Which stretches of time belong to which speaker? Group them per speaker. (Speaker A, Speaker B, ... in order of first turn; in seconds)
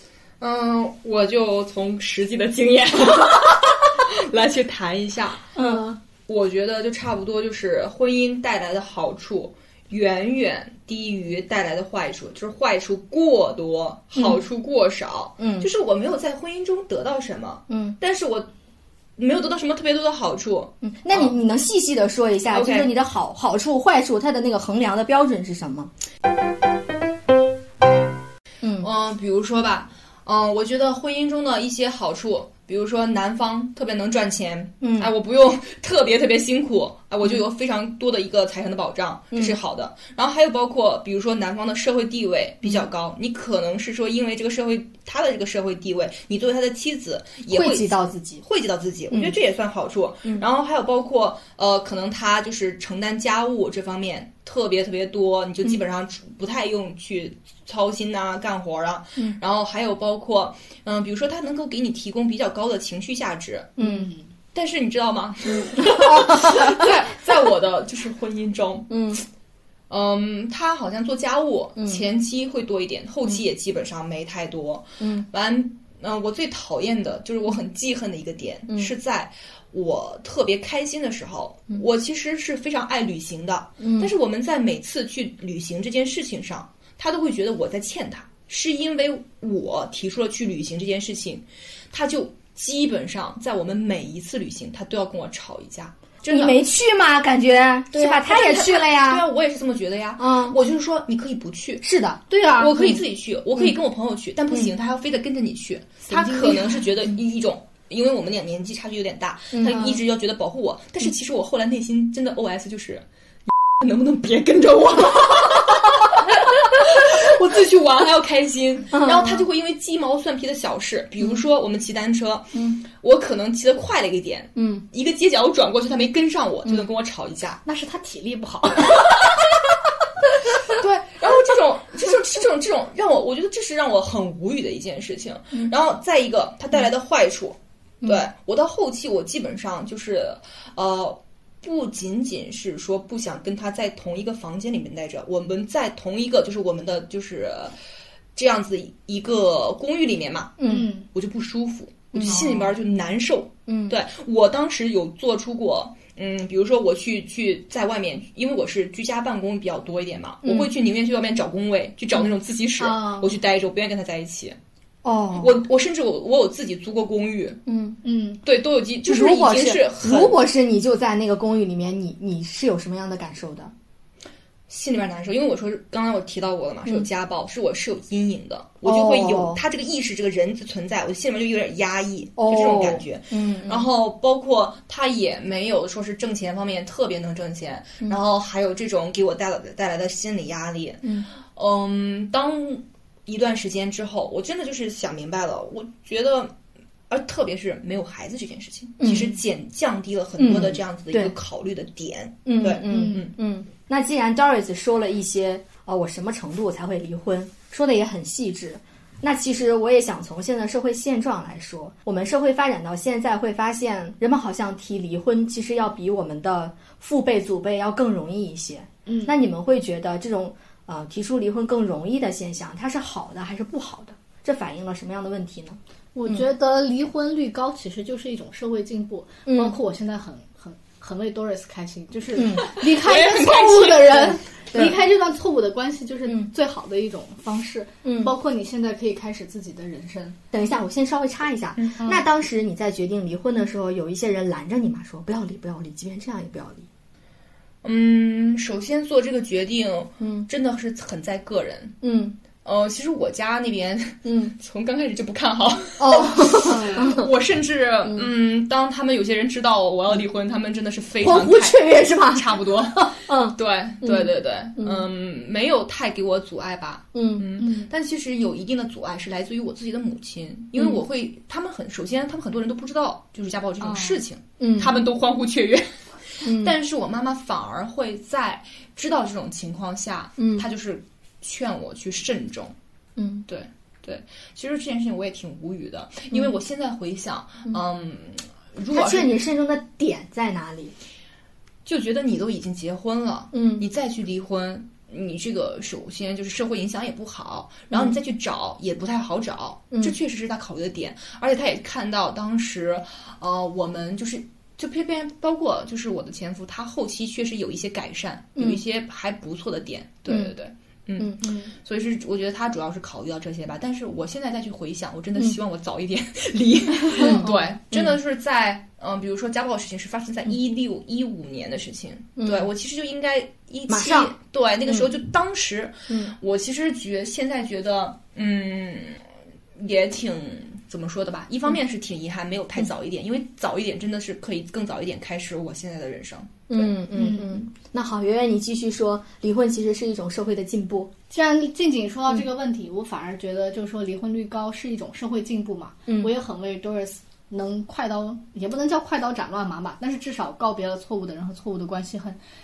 Speaker A: 0.4-5.5, 6.3-18.5, 19.2-21.3, 22.5-22.9, 28.8-63.8, 64.5-69.2, 69.9-96.6, 98.1-101.9, 102.6-127.6, 130.8-147.8, 148.3-164.6, 165.3-167.6, 168.4-170.4, 174.7-196.5, 197.1-203.3, 232.8-234.3, 241.8-242.2, 247.8-252.0, 252.6-282.8, 283.5-289.4, 291.9-329.2, 329.8-336.6
Speaker B: 5.6-5.9, 15.4-15.7, 17.7-18.0, 20.8-25.9, 28.6-28.9, 34.8-35.1, 47.5-48.4, 49.1-49.4, 63.8-64.1, 65.8-66.9, 68.9-69.2, 75.0-75.3, 83.8-84.1, 96.3-99.2, 100.2-100.6, 101.8-102.2, 109.5-110.0, 118.9-119.5, 124.6-124.8, 150.6-150.9, 152.1-152.6, 153.7-154.0, 160.4-160.7, 165.0-165.6, 167.7-168.0, 169.1-173.7, 178.8-179.6, 182.4-183.9, 199.0-199.3, 200.4-201.3, 202.4-226.4, 229.5-229.8, 232.3-232.8, 234.7-235.0, 238.0-238.3, 240.5-246.9, 250.2-250.5, 252.0-252.4, 254.2-254.5, 256.0-257.3, 261.2-265.1, 267.1-267.5, 274.6-275.0, 276.4-276.8, 280.4-280.7, 283.2-283.5, 288.9-290.9, 293.5-293.9, 310.3-310.5, 317.2-318.2, 322.4-322.7, 323.9-324.3, 326.1-326.4, 336.7-341.1
Speaker C: 5.6-6.0, 63.8-64.3, 97.9-98.2, 102.3-102.8, 106.1-106.8, 127.6-129.1, 150.6-151.1, 162.8-163.3, 168.0-168.4, 202.8-203.2, 219.1-219.3, 226.1-240.4, 256.6-257.1, 267.6-267.9, 273.8-274.2, 311.4-311.7, 317.2-317.5, 337.1-337.6, 341.3-352.4